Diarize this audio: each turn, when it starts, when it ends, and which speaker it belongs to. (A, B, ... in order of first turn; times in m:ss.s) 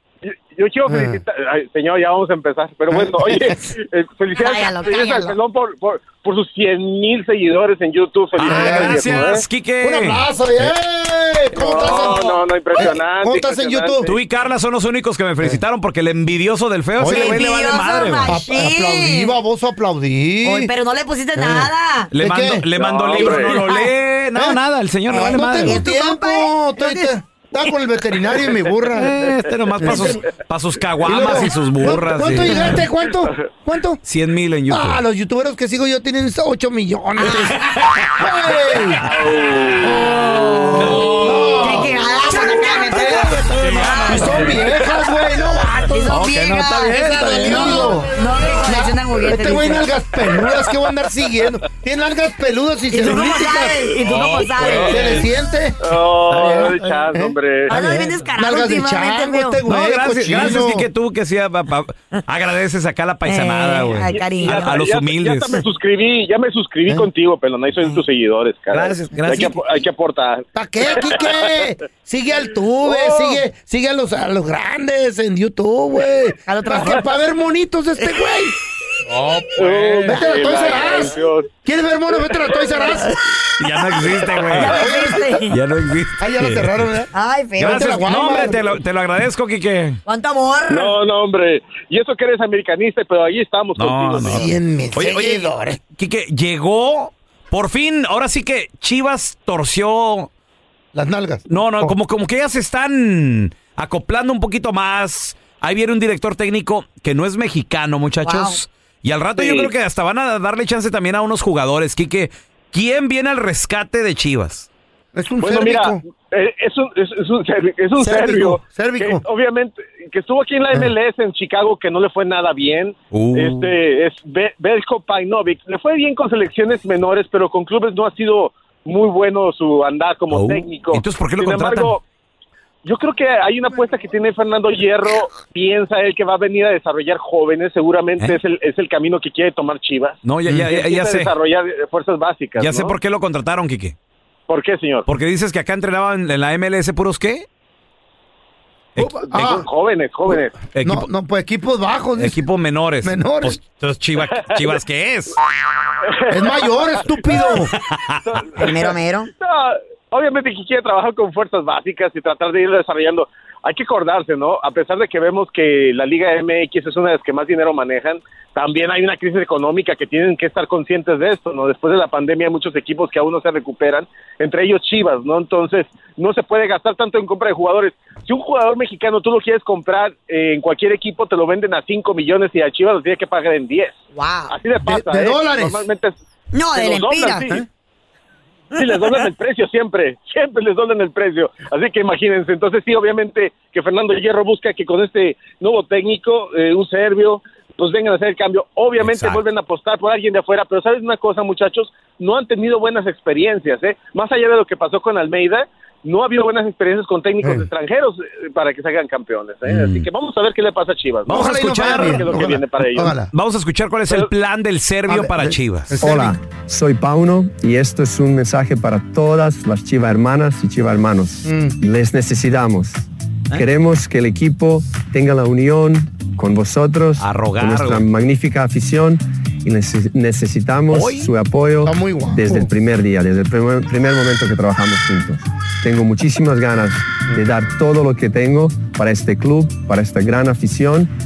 0:00.2-0:09.4 A
0:00.9-0:01.2 B
0:02.9-0:03.6 B
0:04.3-0:05.4 C
0:08.4-0:10.7 D
0:08.4-0:09.3 B
0:09.8-0:14.1 B
0:11.5-0:14.2 A
0:11.8-0:12.2 D
0:14.0-0:18.4 D
0:17.0-0:20.7 B
0:17.0-0:19.3 C
0:20.4-0:22.1 C
0:21.3-0:22.7 B
0:22.1-0:25.9 D
0:22.7-0:23.7 A
0:23.2-0:23.9 C
0:25.1-0:27.1 C
0:25.2-0:29.2 B
0:29.0-0:32.8 D
0:29.8-0:30.2 B
0:31.0-0:34.0 B
0:32.3-0:32.8 C
0:33.1-0:33.3 A
0:34.0-0:35.0 D
0:34.7-0:39.0 B
0:37.2-0:38.3 D
0:39.1-0:40.3 A
0:39.8-0:43.3 B
0:40.2-0:41.0 C
0:40.8-0:41.8 D
0:41.6-0:44.6 C
0:43.0-0:44.9 D
0:44.1-0:54.0 B
0:45.8-0:49.9 C
0:46.1-0:47.7 D
0:52.9-0:55.2 C
0:54.0-0:55.1 D
0:54.6-1:00.9 B
0:55.8-0:57.7 A
0:57.7-0:59.6 C
0:59.7-1:05.5 D
1:03.2-1:04.7 C
1:04.1-1:11.6 A
1:08.7-1:09.6 D
1:10.5-1:18.5 B
1:12.8-1:13.4 A
1:16.5-1:17.0 C
1:19.5-1:21.5 A
1:20.0-1:23.2 B
1:22.8-1:23.2 C
1:23.6-1:24.8 D
1:24.4-1:25.6 C
1:24.6-1:25.4 B
1:25.5-1:26.9 D
1:26.2-1:28.6 B
1:27.1-1:28.4 C
1:27.6-1:30.0 D
1:30.0-1:30.9 C
1:30.7-1:34.6 A
1:33.8-1:40.3 D
1:34.3-1:35.8 B
1:40.9-1:42.0 B
1:41.5-1:54.7 D
1:48.2-1:48.6 C
1:49.4-1:49.7 A
1:55.1-1:56.0 B
1:55.4-2:12.0 A
1:58.0-1:59.2 B
2:03.1-2:03.7 D
2:10.3-2:12.0 D
2:12.8-2:22.9 A
2:20.2-2:21.3 D
2:22.6-2:23.9 D
2:24.5-2:25.1 A
2:25.0-2:27.4 D
2:29.0-2:29.7 B
2:29.2-2:30.6 A
2:30.3-2:32.4 B
2:30.7-2:31.1 D
2:32.2-2:35.4 D
2:33.0-2:33.6 B
2:34.4-2:34.7 A
2:36.1-2:37.1 A
2:36.3-2:37.7 B
2:37.7-2:38.6 D
2:38.2-3:06.1 A
2:38.6-2:39.3 C
3:04.1-3:04.5 C
3:04.8-3:05.8 B
3:06.5-3:07.5 C
3:06.7-3:07.6 A
3:08.7-3:33.2 A
3:09.0-3:09.2 C
3:19.0-3:19.4 D
3:27.4-3:27.7 B
3:29.6-3:30.1 B
3:31.3-3:33.3 B
3:31.3-3:32.3 D
3:33.3-3:36.0 D
3:35.1-3:36.4 B
3:36.0-4:01.1 E
3:41.4-3:41.8 B
3:47.2-3:48.0 D
3:50.9-3:51.3 D
3:51.8-3:52.7 B